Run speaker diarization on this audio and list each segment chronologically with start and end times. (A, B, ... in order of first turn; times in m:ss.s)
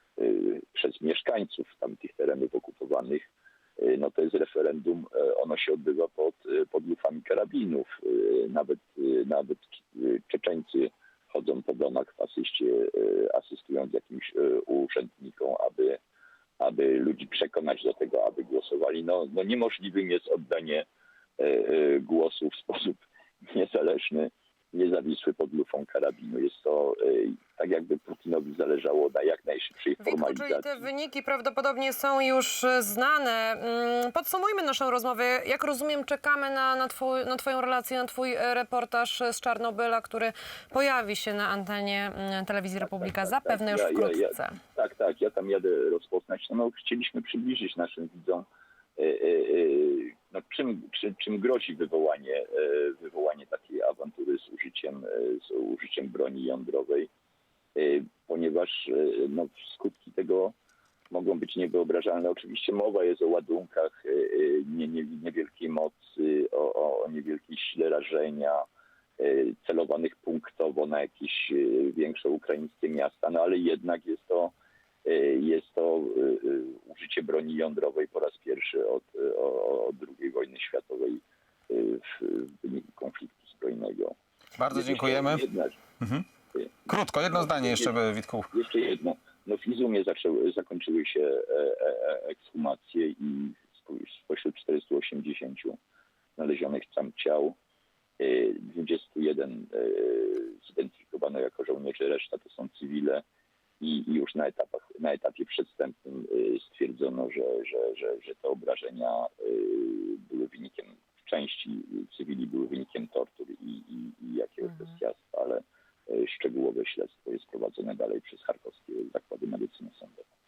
0:00.2-0:16.0 A
0:16.6-0:20.9 A
0:21.4-0:30.8 A
0:30.0-0:44.6 B
0:42.8-0:48.5 A
0:49.0-0:57.1 A
0:57.8-1:00.6 A
1:01.1-1:08.7 A
1:09.2-1:24.2 A
1:24.6-1:25.4 C
1:24.7-1:25.8 A
1:26.0-1:26.2 C
1:26.9-1:28.5 C
1:27.3-1:28.0 A
1:28.5-1:35.8 A
1:36.4-1:37.6 A
1:38.2-1:43.2 A
1:43.8-2:00.2 A